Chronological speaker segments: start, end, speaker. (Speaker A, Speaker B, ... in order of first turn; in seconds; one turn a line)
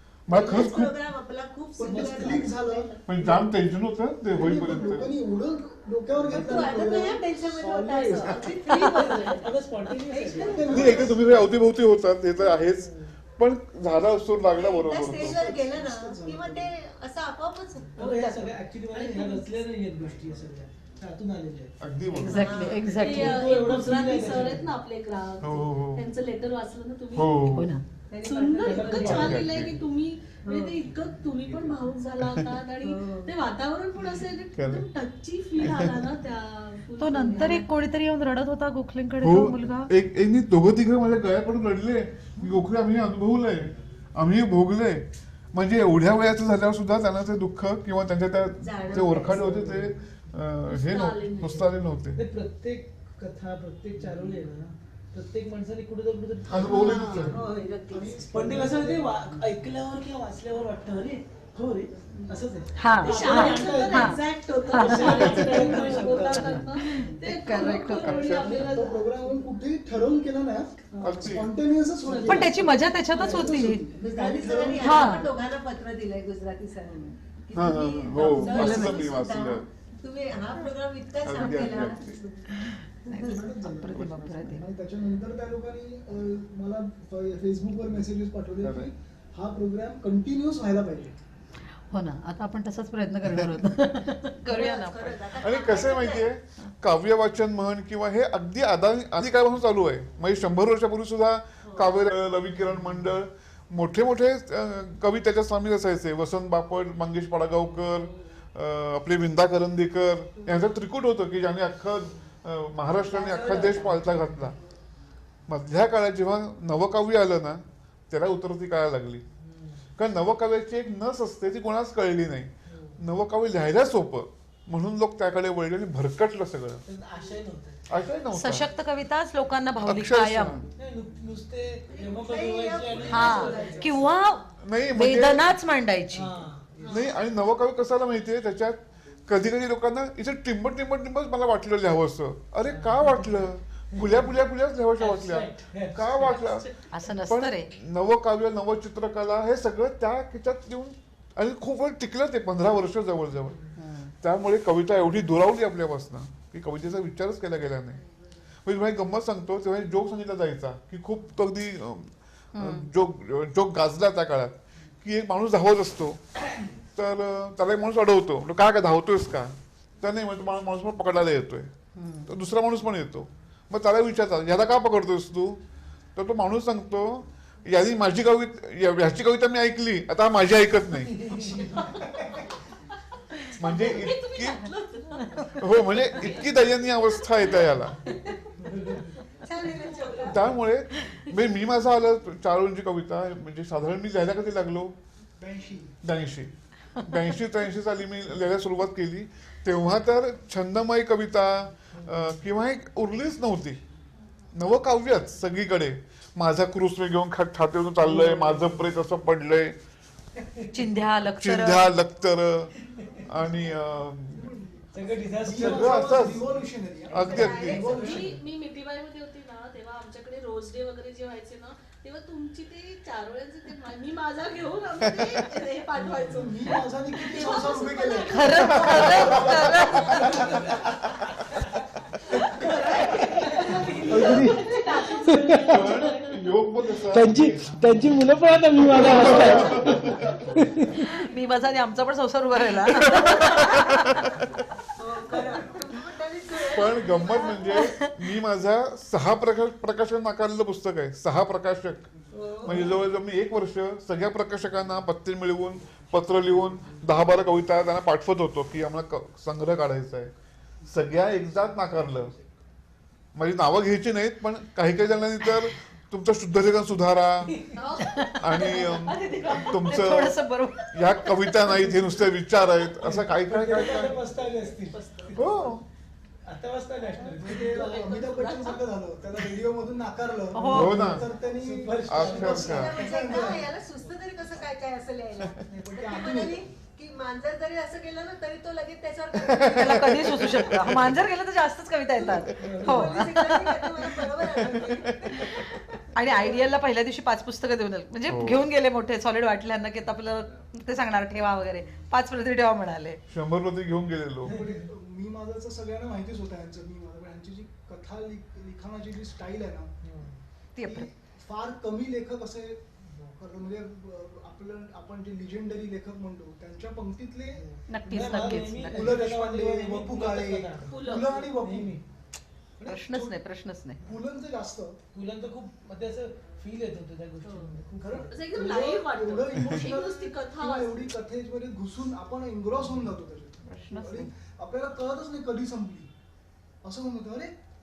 Speaker A: 0.3-0.9
Speaker B: 0.3-3.1
Speaker C: 1.8-3.5
Speaker D: 1.8-2.6
Speaker A: 3.1-5.1
Speaker C: 4.3-7.4
Speaker D: 6.1-6.8
Speaker B: 6.3-11.1
Speaker D: 7.8-11.4
Speaker C: 8.2-9.0
Speaker A: 8.2-8.5
Speaker E: 8.7-9.2
Speaker C: 10.4-11.4
Speaker A: 10.7-15.4
Speaker B: 14.5-19.6
Speaker C: 15.1-16.7
Speaker D: 17.9-21.8
Speaker C: 17.9-18.2
Speaker A: 21.8-22.6
Speaker E: 22.1-23.4
Speaker B: 22.3-23.0
Speaker F: 22.9-27.4
Speaker D: 23.0-24.7
Speaker A: 25.4-26.1
Speaker A: 27.1-27.7
Speaker E: 27.5-27.8
Speaker B: 28.1-29.0
Speaker F: 28.2-37.7
Speaker D: 28.6-29.4
Speaker C: 28.7-29.4
Speaker A: 28.9-29.8
Speaker B: 30.4-30.8
Speaker A: 32.2-32.5
Speaker B: 32.8-33.3
Speaker A: 34.6-34.9
Speaker A: 35.6-36.0
Speaker E: 37.0-39.9
Speaker A: 39.2-52.2
Speaker B: 48.6-49.4
Speaker C: 49.4-49.8
Speaker F: 50.6-51.7
Speaker D: 52.1-57.4
Speaker A: 56.5-57.4
Speaker B: 56.6-58.4
Speaker C: 57.9-59.1
Speaker D: 58.3-66.7
Speaker E: 62.8-68.2
Speaker F: 63.0-69.0
Speaker C: 63.2-63.9
Speaker C: 65.0-67.1
Speaker A: 68.0-68.5
Speaker C: 68.2-75.3
Speaker A: 71.0-71.5
Speaker F: 72.0-72.6
Speaker E: 72.2-73.8
Speaker B: 73.9-82.5
Speaker E: 74.8-75.3
Speaker C: 76.9-77.1
Speaker A: 77.5-79.7
Speaker E: 78.2-79.1
Speaker A: 81.2-82.2
Speaker E: 82.5-84.7
Speaker C: 83.0-91.2
Speaker A: 83.9-84.5
Speaker A: 88.6-88.9
Speaker E: 91.9-95.3
Speaker B: 94.5-96.3
Speaker A: 95.4-114.5
Speaker B: 101.6-101.9
Speaker D: 113.3-114.0
Speaker A: 115.5-119.2
Speaker D: 119.4-119.8
Speaker A: 120.0-126.8
Speaker D: 122.7-123.0
Speaker D: 126.9-127.9
Speaker A: 127.9-128.7
Speaker E: 128.3-130.6
Speaker A: 129.8-130.7
Speaker D: 130.8-134.1
Speaker B: 131.8-133.8
Speaker C: 133.0-134.2
Speaker E: 133.1-136.3
Speaker A: 134.6-135.5
Speaker D: 136.1-136.8
Speaker B: 136.8-137.2
Speaker A: 136.9-153.6
Speaker D: 142.6-144.3
Speaker D: 145.0-146.6
Speaker E: 146.9-147.7
Speaker E: 153.7-154.1
Speaker A: 154.2-158.0
Speaker A: 158.6-166.4
Speaker E: 162.5-162.9
Speaker A: 166.9-171.7
Speaker E: 171.9-172.3
Speaker A: 172.3-175.6
Speaker A: 176.2-181.3
Speaker D: 181.2-181.6
Speaker C: 181.3-182.2
Speaker F: 183.5-189.1
Speaker A: 183.6-184.7
Speaker A: 185.6-188.0
Speaker D: 188.6-189.2
Speaker B: 189.4-190.4
Speaker F: 189.7-190.4
Speaker A: 190.2-194.9
Speaker C: 195.4-195.9
Speaker A: 196.0-196.5
Speaker E: 196.9-197.3
Speaker A: 197.0-203.8
Speaker D: 201.9-202.3
Speaker A: 204.5-209.8
Speaker D: 208.0-208.9
Speaker E: 210.7-211.9
Speaker A: 211.4-212.7
Speaker C: 213.1-218.4
Speaker A: 213.3-214.5
Speaker D: 214.9-216.5
Speaker A: 215.6-216.4
Speaker A: 217.1-218.0
Speaker B: 217.1-218.3
Speaker F: 217.5-230.8
Speaker A: 225.0-225.4
Speaker C: 225.9-229.5
Speaker E: 228.3-230.3
Speaker A: 228.8-231.5
Speaker D: 230.2-230.8
Speaker F: 232.5-236.4
Speaker D: 232.5-236.0
Speaker C: 234.1-234.6
Speaker A: 235.6-238.2
Speaker D: 237.1-240.9
Speaker A: 238.9-240.6
Speaker C: 239.2-239.6
Speaker E: 239.2-239.6
Speaker E: 240.8-244.0
Speaker A: 243.1-243.9
Speaker B: 245.0-247.8
Speaker A: 246.6-260.3
Speaker E: 247.6-248.1
Speaker B: 252.3-252.9
Speaker A: 260.9-262.3
Speaker A: 263.3-267.6
Speaker F: 267.7-269.7
Speaker E: 268.1-272.1
Speaker A: 268.4-270.4
Speaker A: 270.9-274.2
Speaker D: 273.0-275.6
Speaker F: 273.7-275.7
Speaker A: 275.3-275.8
Speaker D: 276.4-278.0
Speaker F: 277.1-278.8
Speaker C: 277.4-283.8
Speaker E: 280.5-281.2
Speaker A: 280.7-281.3
Speaker D: 280.9-283.0
Speaker A: 282.0-283.0
Speaker B: 282.3-290.3
Speaker C: 285.7-286.7
Speaker A: 289.3-291.2
Speaker E: 289.7-293.8
Speaker B: 292.2-295.5
Speaker D: 292.6-293.2
Speaker A: 294.3-295.6
Speaker E: 296.0-303.2
Speaker A: 298.3-298.7
Speaker A: 303.3-304.6
Speaker D: 304.4-304.9
Speaker C: 304.4-309.9
Speaker D: 310.0-310.4
Speaker E: 310.8-311.1
Speaker C: 310.8-317.6
Speaker D: 313.1-313.4
Speaker D: 317.5-320.9
Speaker E: 317.9-319.1
Speaker C: 318.3-322.0
Speaker F: 320.8-321.5
Speaker D: 321.5-322.0
Speaker C: 322.8-323.4
Speaker E: 322.9-324.0
Speaker C: 324.0-325.0
Speaker D: 325.1-328.4
Speaker C: 327.9-336.1
Speaker F: 328.3-331.1
Speaker E: 333.6-334.3
Speaker C: 336.8-337.5